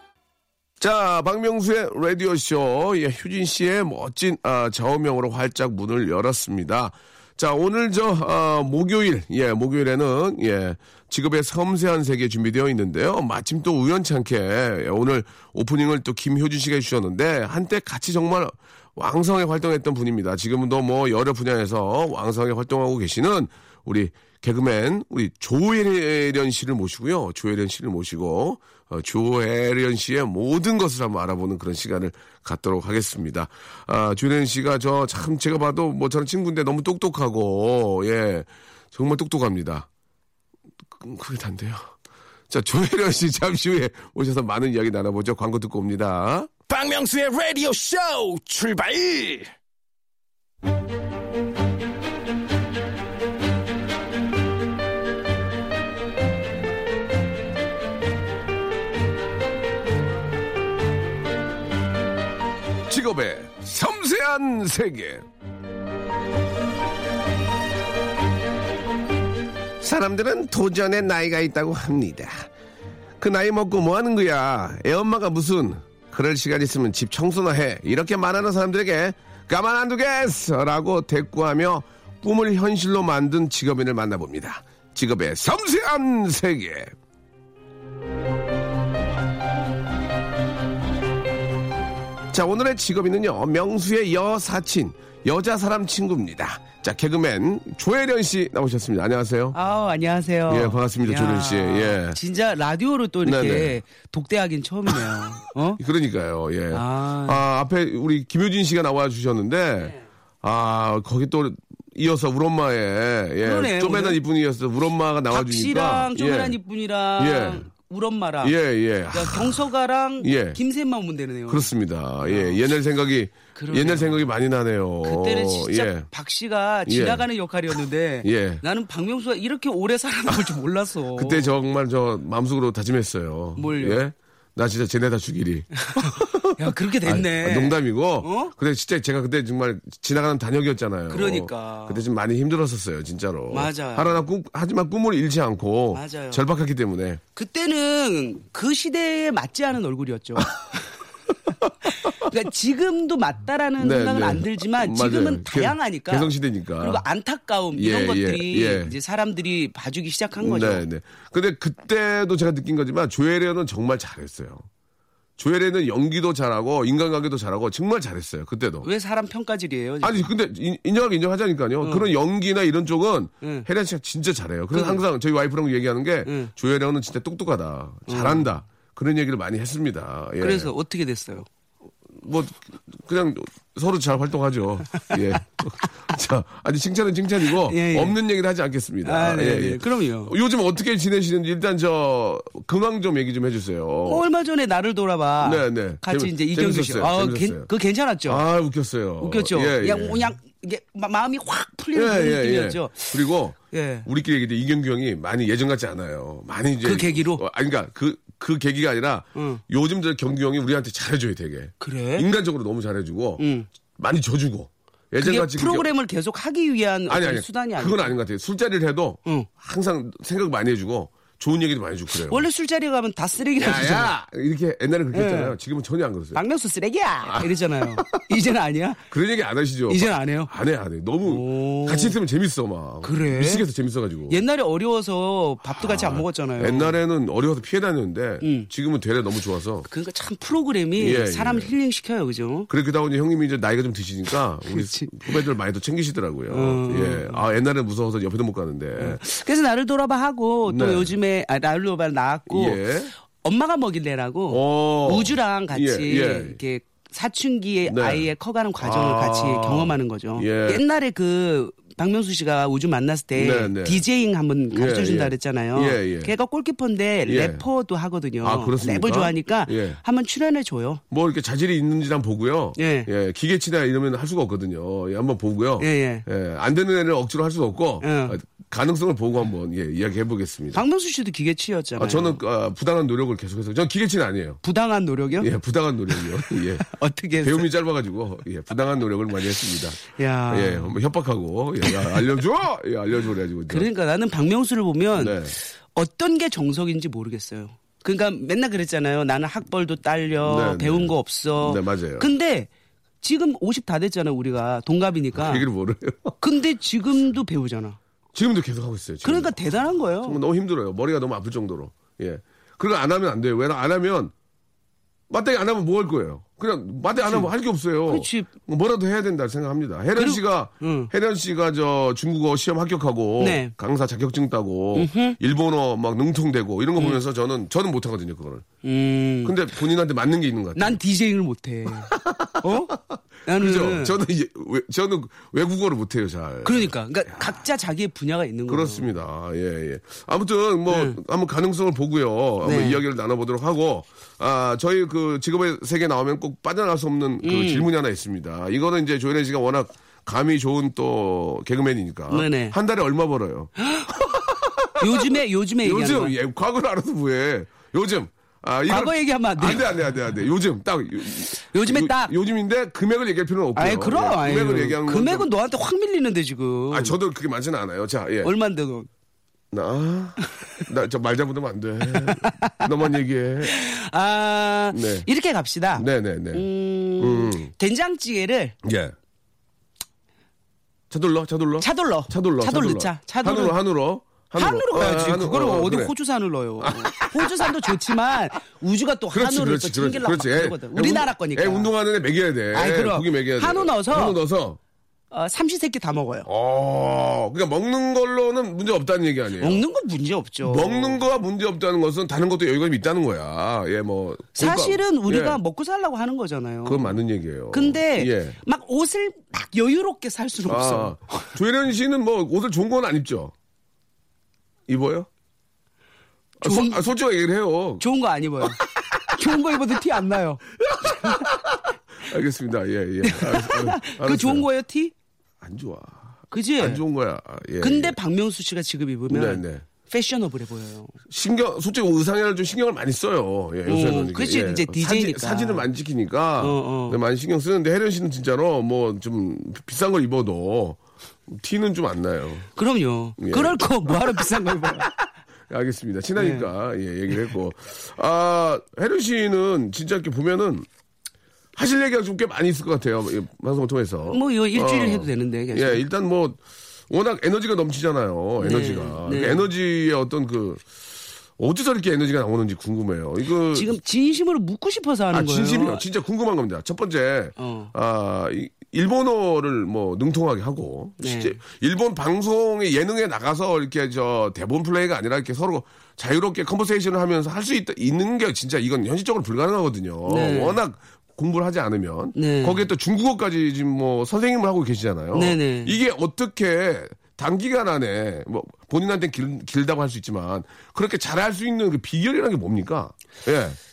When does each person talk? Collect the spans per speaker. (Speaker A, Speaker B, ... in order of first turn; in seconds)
Speaker A: 0.8-39.9, 41.0-41.9, 42.5-46.5, 62.9-65.2, 69.8-72.5, 73.2-86.9, 92.3-99.6, 100.5-102.2, 103.2-103.8, 105.8-116.6, 117.2-117.7, 118.4-119.6, 120.2-120.6, 121.5-126.1, 126.9-127.3, 128.2-128.6, 131.1-147.2, 153.8-157.0, 157.7-158.9, 160.4-164.7, 165.4-168.9, 170.0-180.7, 182.2-194.2, 195.4-197.7, 198.3-200.3, 201.9-213.4, 214.0-215.9, 217.1-222.5, 223.6-226.4, 227.3-228.2, 229.1-234.4, 235.8-239.9, 241.0-241.7, 242.7-249.2, 250.7-251.1, 252.5-253.1, 254.5-256.6, 257.9-258.3, 258.8-260.8, 263.4-264.0, 264.7-266.3, 267.3-267.6, 268.4-270.0, 271.1-280.8, 282.0-284.6, 285.4-286.9, 287.4-293.9, 295.2-295.6, 300.4-302.3, 305.3-306.4, 308.3-309.6, 310.2-314.3, 315.3-328.7, 329.4-331.0, 332.1-337.6, 338.7-365.5, 366.9-368.5, 369.7-373.7, 374.9-375.3, 376.0-376.7, 377.2-377.7, 378.8-379.1, 381.1-386.1, 386.8-387.9, 389.3-394.8, 396.5-399.8, 400.6-405.6, 406.9-408.6, 410.7-413.5, 414.9-415.3, 416.6-418.1, 420.9-424.7, 425.6-428.2, 429.3-429.9, 431.3-442.7, 443.4-445.1, 445.7-450.9, 451.8-460.8, 461.6-463.9, 465.3-493.8
Speaker B: 46.7-49.5
Speaker C: 99.5-105.8, 106.7-107.4, 113.4-114.2, 115.3-118.6, 119.1-121.7, 122.2-122.6, 123.5-124.2, 125.0-131.6, 133.6-134.1, 135.8-138.5, 141.1-142.0, 143.5-144.2, 145.9-146.4, 147.3-150.9, 152.1-160.8, 168.8-170.3, 171.8-172.1, 174.7-175.0, 178.1-178.5, 180.4-181.5, 187.6-188.2, 189.0-190.3, 194.1-198.4, 199.2-204.1, 206.8-207.4, 209.3-209.6, 211.8-212.3, 213.4-213.7, 215.2-218.2, 222.2-224.1, 225.1-225.6, 226.3-229.0, 229.9-230.5, 231.2-232.2, 233.0-233.6, 234.3-237.0, 238.4-238.7, 239.9-242.7, 244.7-245.3, 246.5-247.4, 249.0-252.8, 253.4-271.0, 272.8-273.1, 275.8-276.3, 278.0-278.4, 280.7-282.4, 284.6-285.5, 286.2-287.7, 290.0-290.9, 291.8-292.2, 293.7-302.7, 303.2-305.7, 306.4-308.0, 309.2-310.4, 317.2-317.5, 318.1-318.5, 320.1-321.1, 323.4-323.7, 324.9-325.4, 328.8-329.6, 330.8-332.9, 333.5-334.2, 336.6-339.1, 340.9-341.2, 342.6-343.0, 347.4-347.9, 352.3-352.8, 353.8-354.1, 355.0-356.4, 358.9-360.0, 361.6-362.3, 363.8-367.2, 368.4-369.1, 372.1-372.9, 373.6-378.8, 381.8-383.8, 384.6-391.9, 392.7-394.4, 395.3-396.5, 399.6-401.2, 404.6-407.2, 407.7-411.5, 416.6-417.1, 418.0-421.5, 423.2-425.1, 426.5-427.0, 427.8-431.2, 433.9-435.9, 436.6-437.2, 442.8-445.1, 446.4-446.7, 454.3-456.0, 458.6-459.7, 463.7-466.0, 467.6-467.9, 471.2-471.6, 480.3-480.8, 482.4-482.8, 485.3-486.0